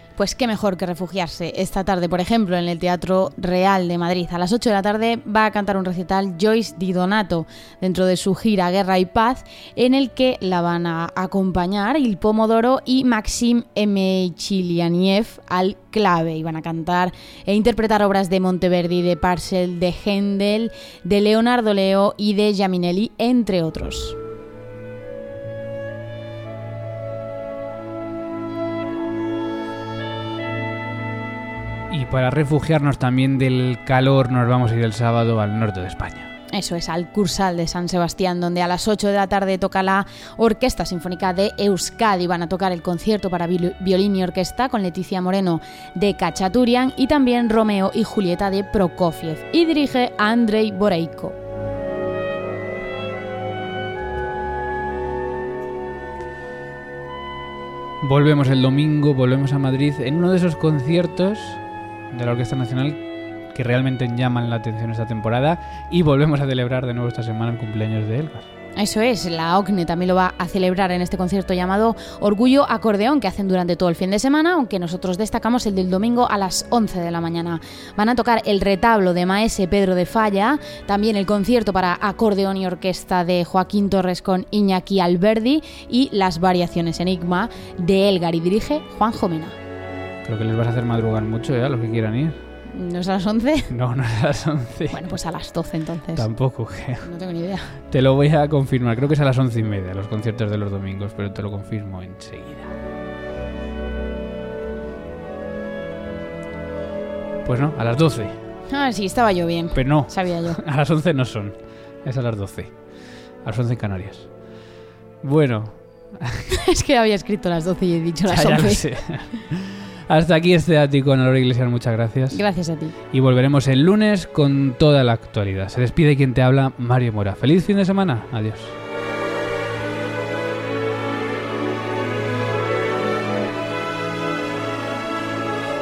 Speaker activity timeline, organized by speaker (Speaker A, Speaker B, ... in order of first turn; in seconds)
Speaker A: 0.2-24.2, 36.5-51.4, 68.8-89.6, 92.7-93.7, 94.9-96.3, 97.0-97.7, 108.7-110.6, 116.7-119.2, 122.3-123.0
Speaker B: 31.9-36.3, 58.0-68.5, 90.2-92.4, 93.7-95.1, 96.2-97.1, 97.9-102.7, 107.4-108.4, 109.8-114.6, 115.2-116.4, 118.3-122.4, 123.1-128.8